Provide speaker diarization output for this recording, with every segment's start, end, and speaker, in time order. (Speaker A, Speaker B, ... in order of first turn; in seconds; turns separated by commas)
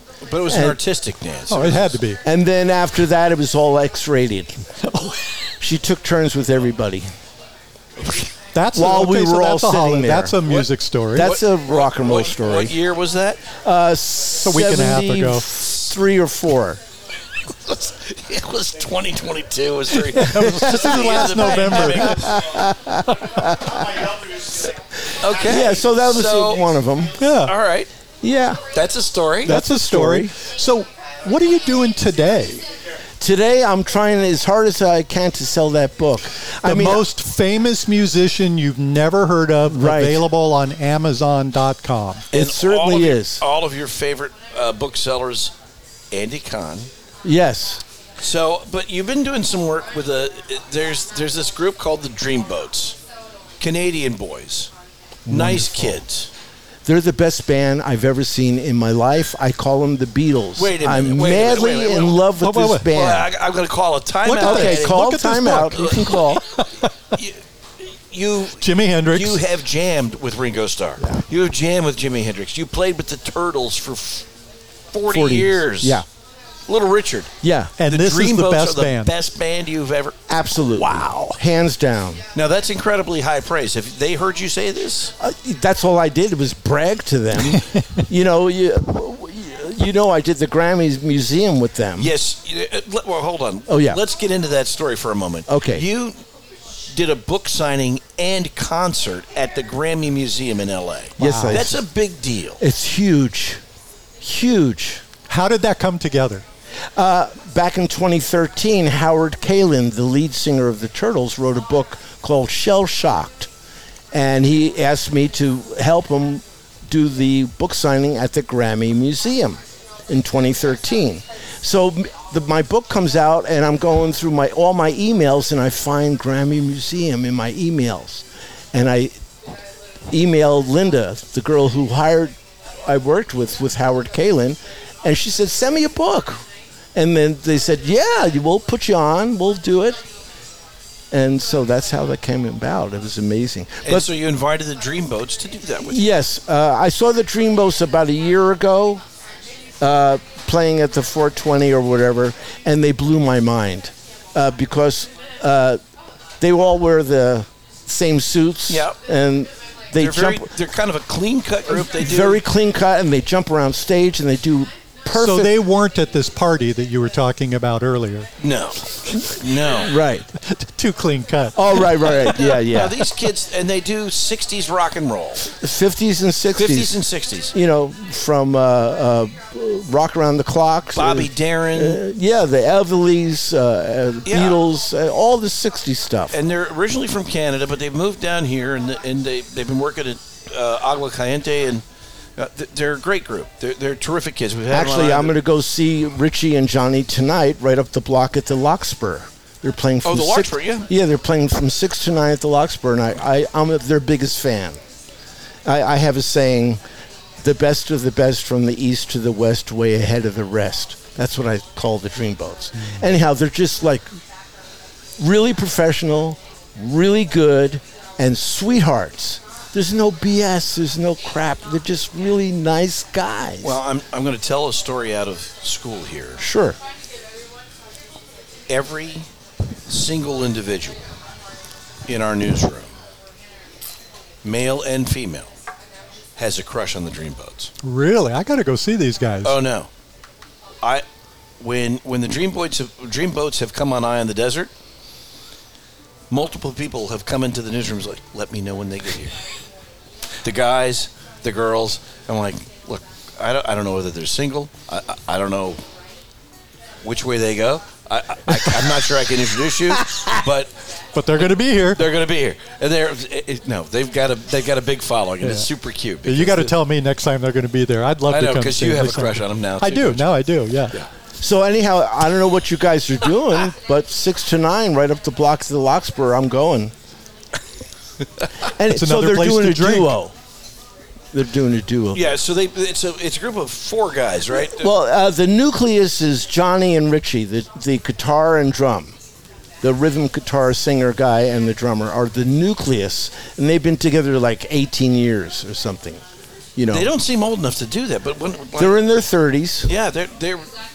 Speaker A: 0.2-2.0, Speaker B: 0.5-0.8, Speaker C: 1.5-2.2, Speaker B: 2.2-4.6, Speaker C: 4.8-5.2, Speaker B: 5.6-7.1, Speaker C: 8.5-11.3, Speaker B: 8.7-10.4, Speaker A: 10.5-13.4, Speaker B: 11.1-12.8, Speaker B: 13.5-16.8, Speaker C: 14.4-15.5, Speaker A: 17.5-22.4, Speaker C: 20.1-22.4, Speaker B: 20.4-24.1, Speaker A: 25.2-26.6, Speaker B: 25.4-27.2, Speaker C: 27.2-27.5, Speaker A: 27.4-27.9, Speaker B: 28.2-28.7, Speaker A: 28.7-29.6, Speaker B: 29.4-30.3, Speaker C: 29.4-32.6, Speaker B: 33.2-37.1, Speaker C: 36.6-42.3, Speaker B: 39.7-40.2, Speaker A: 42.3-45.5, Speaker B: 42.3-43.4, Speaker A: 46.1-46.9, Speaker B: 47.2-47.8, Speaker A: 48.2-53.0, Speaker A: 53.6-54.7, Speaker A: 55.3-56.3, Speaker C: 55.3-55.7, Speaker B: 56.8-63.3, Speaker A: 60.5-62.2, Speaker C: 62.4-62.9, Speaker A: 62.9-65.0, Speaker C: 64.2-66.9, Speaker B: 64.4-66.4, Speaker A: 65.5-66.1, Speaker A: 67.1-74.3, Speaker C: 68.6-69.4, Speaker A: 74.9-76.0, Speaker B: 75.1-76.0, Speaker A: 76.7-77.3, Speaker B: 77.4-77.7, Speaker C: 77.8-79.1, Speaker A: 77.8-80.2, Speaker B: 80.3-82.2, Speaker A: 80.8-81.3, Speaker A: 82.3-85.1, Speaker B: 85.2-92.1, Speaker C: 87.7-88.0, Speaker A: 92.0-96.2, Speaker B: 93.7-94.0, Speaker B: 95.5-95.8, Speaker A: 96.9-102.6, Speaker B: 101.2-101.8, Speaker C: 101.2-101.6, Speaker B: 102.6-103.6, Speaker B: 104.2-105.0, Speaker C: 105.3-106.4, Speaker B: 107.0-113.5, Speaker B: 114.1-129.1, Speaker B: 130.1-140.0, Speaker B: 141.1-144.1, Speaker A: 143.8-146.0, Speaker B: 145.8-149.0, Speaker B: 149.8-155.8, Speaker B: 156.4-160.5, Speaker A: 158.7-159.0, Speaker A: 160.0-162.4, Speaker B: 161.7-165.6, Speaker C: 165.1-168.3, Speaker A: 168.4-169.9, Speaker B: 169.8-170.3, Speaker C: 170.4-172.1, Speaker B: 171.6-173.1, Speaker A: 172.2-175.5, Speaker B: 175.5-177.0, Speaker A: 176.5-177.5, Speaker B: 177.5-186.3, Speaker A: 180.9-182.0, Speaker A: 184.2-184.6, Speaker A: 186.3-191.8, Speaker A: 192.4-195.3, Speaker B: 194.7-204.8, Speaker A: 200.0-200.9, Speaker B: 205.6-206.8, Speaker B: 207.4-214.1, Speaker B: 215.2-223.8, Speaker A: 223.6-226.4, Speaker B: 226.4-226.8, Speaker A: 228.7-229.3, Speaker A: 229.9-231.0, Speaker A: 232.1-232.9, Speaker A: 234.4-235.5, Speaker A: 236.4-237.7, Speaker C: 237.8-239.6, Speaker A: 239.4-239.9, Speaker A: 241.6-244.7, Speaker A: 246.3-249.3, Speaker A: 250.4-255.8, Speaker A: 257.0-260.7, Speaker C: 261.1-262.0, Speaker A: 261.9-266.7, Speaker C: 266.2-270.9, Speaker A: 268.3-270.3, Speaker B: 271.4-276.9, Speaker B: 278.7-280.3, Speaker C: 278.9-280.1, Speaker B: 281.3-282.4, Speaker A: 282.1-284.9, Speaker B: 284.7-289.1, Speaker B: 289.8-296.2, Speaker B: 296.8-297.1, Speaker A: 296.9-299.0, Speaker B: 298.8-299.9, Speaker A: 299.9-300.7